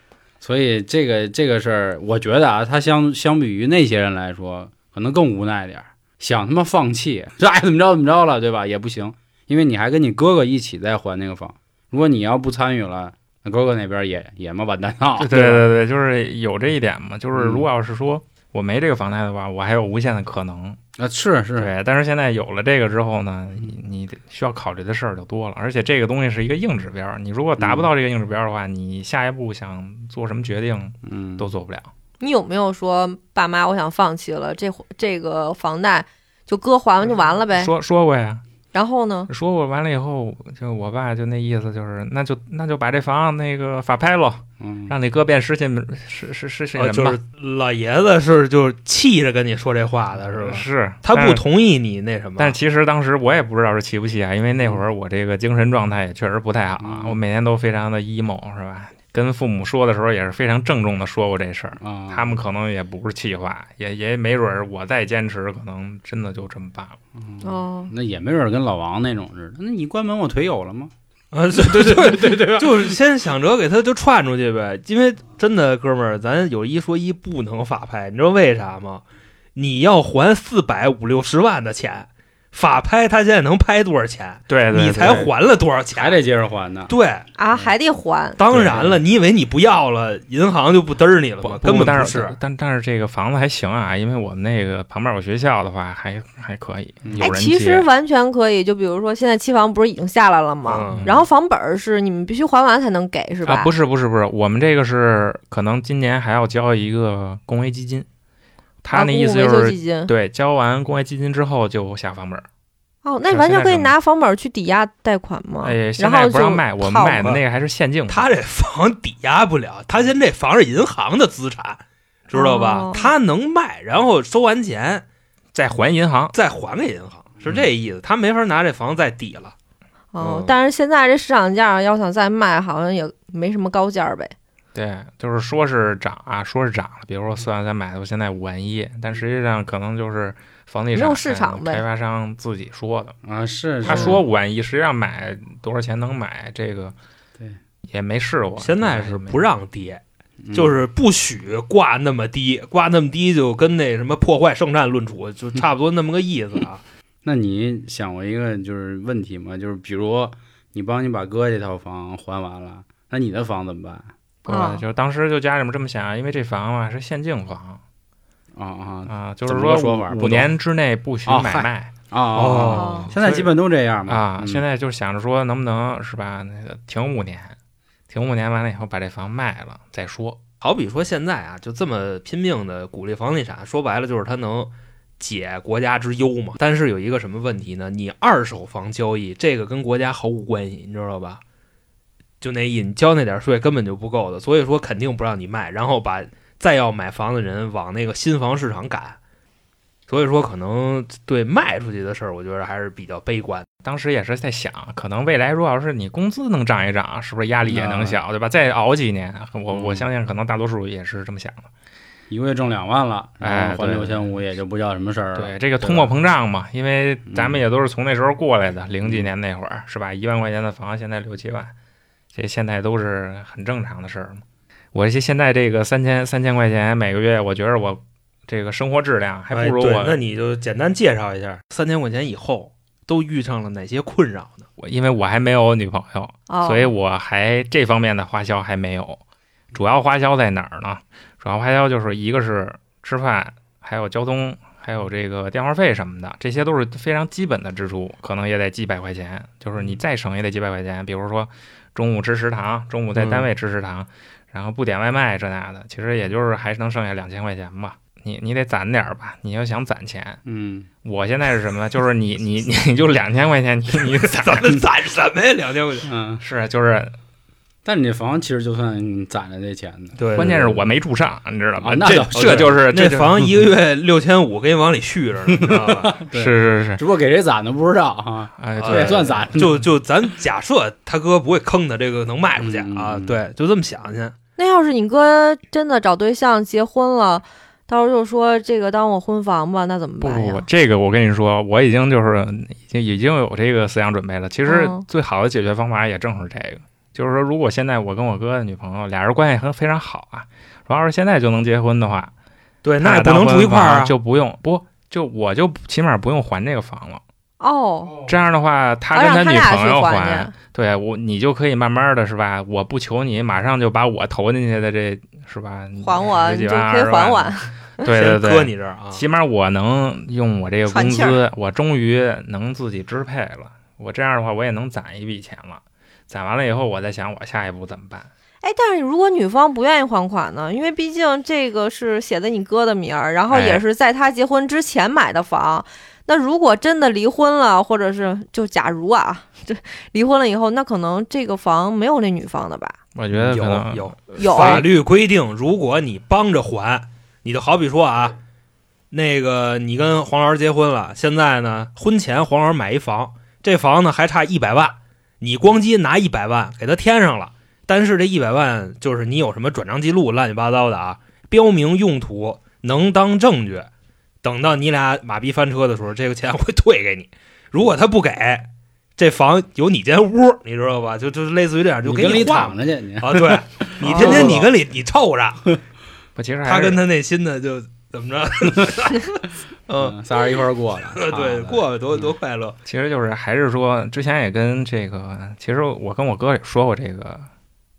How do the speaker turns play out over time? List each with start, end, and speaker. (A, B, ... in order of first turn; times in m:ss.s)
0:00.4-0:15.7 A
0:15.2-0:20.8 B
0:17.4-0:17.7 A
0:21.0-0:21.7 A
0:21.6-0:31.9 B
0:27.6-0:27.9 A
0:31.0-0:31.5 A
0:32.2-0:37.7 C
0:37.5-0:38.4 B
0:38.7-0:39.3 C
0:39.3-0:47.2 B
0:44.6-0:45.0 A
0:46.8-0:52.6 D
0:50.4-0:51.4 B
0:52.4-1:07.0 B
0:56.8-0:57.2 A
1:01.8-1:02.4 A
1:07.2-1:10.9 A
1:07.4-1:07.9 C
1:11.3-1:19.0 D
1:11.6-1:13.0 A
1:19.6-1:26.2 D
1:24.5-1:25.3 B
1:25.9-1:26.9 A
1:26.9-1:27.2 D
1:27.4-1:28.4 C
1:28.4-1:32.4 D
1:28.5-1:29.0 A
1:28.6-1:28.8 B
1:31.4-1:37.9 B
1:37.0-1:37.3 A
1:37.2-1:43.7 C
1:40.6-1:41.1 D
1:40.9-1:41.2 B
1:43.4-1:48.1 B
1:48.8-1:52.5 B
1:48.9-1:50.1 C
1:53.0-1:57.4 C
1:53.3-1:53.9 B
1:55.6-1:58.3 B
1:58.1-2:05.1 D
2:02.3-2:03.1 C
2:05.5-2:06.4 B
2:06.3-2:09.5 D
2:10.1-2:14.3 C
2:10.2-2:10.5 D
2:14.7-2:23.2 B
2:21.0-2:21.8 C
2:23.2-2:24.2 A
2:23.8-2:27.0 B
2:27.9-2:29.4 B
2:28.6-2:30.0 D
2:30.4-2:30.8 A
2:30.5-2:36.8 D
2:37.2-2:44.1 A
2:44.5-2:44.8 C
2:44.5-2:47.8 B
2:48.6-2:50.5 A
2:49.1-2:51.9 B
2:51.3-2:54.6 A
2:52.4-2:53.1 D
2:52.6-2:53.5 B
2:52.7-2:53.1 C
2:54.1-2:57.6 B
2:58.1-3:00.4 B
3:00.6-3:11.4 D
3:12.4-3:19.2 D
3:20.1-3:23.7 D
3:23.8-3:31.7 B
3:27.7-3:28.2 A
3:29.7-3:30.1 A
3:32.3-3:36.1 A
3:33.4-3:34.3 B
3:35.4-3:41.7 B
3:37.3-3:37.6 A
3:39.0-3:39.3 A
3:42.3-3:50.2 B
3:49.5-3:54.7 D
3:54.8-3:59.2 B
3:56.5-3:56.9 C
3:59.7-4:20.4 B
4:13.2-4:13.4 D
4:20.4-4:20.9 A
4:21.0-4:24.8 B
4:24.3-4:26.1 D
4:26.0-4:26.4 A
4:26.4-4:27.2 B
4:27.8-4:30.8 A
4:30.2-4:30.8 D
4:30.4-4:33.5 B
4:31.8-4:32.8 A
4:32.3-4:36.2 D
4:35.5-4:39.9 A
4:36.3-4:37.0 B
4:38.6-4:39.6 B
4:38.8-4:44.4 D
4:42.6-4:43.4 A
4:44.6-4:50.7 C
4:50.2-5:02.3 B
4:54.7-4:55.0 C
5:02.8-5:04.1 D
5:03.0-5:07.2 B
5:07.6-5:08.2 C
5:08.2-5:28.3 B
5:09.1-5:10.5 C
5:16.0-5:18.0 C
5:18.1-5:19.2 D
5:20.9-5:21.4 C
5:28.6-5:43.0 C
5:33.5-5:33.8 B
5:43.2-5:44.9 B
5:43.3-5:48.4 D
5:44.4-5:44.9 C
5:49.1-6:03.9 D
6:04.4-6:15.8 D
6:12.0-6:14.7 A
6:14.0-6:14.6 C
6:16.4-6:17.0 B
6:16.6-6:20.2 D
6:20.0-6:22.3 A
6:21.1-6:22.8 D
6:22.8-6:27.5 B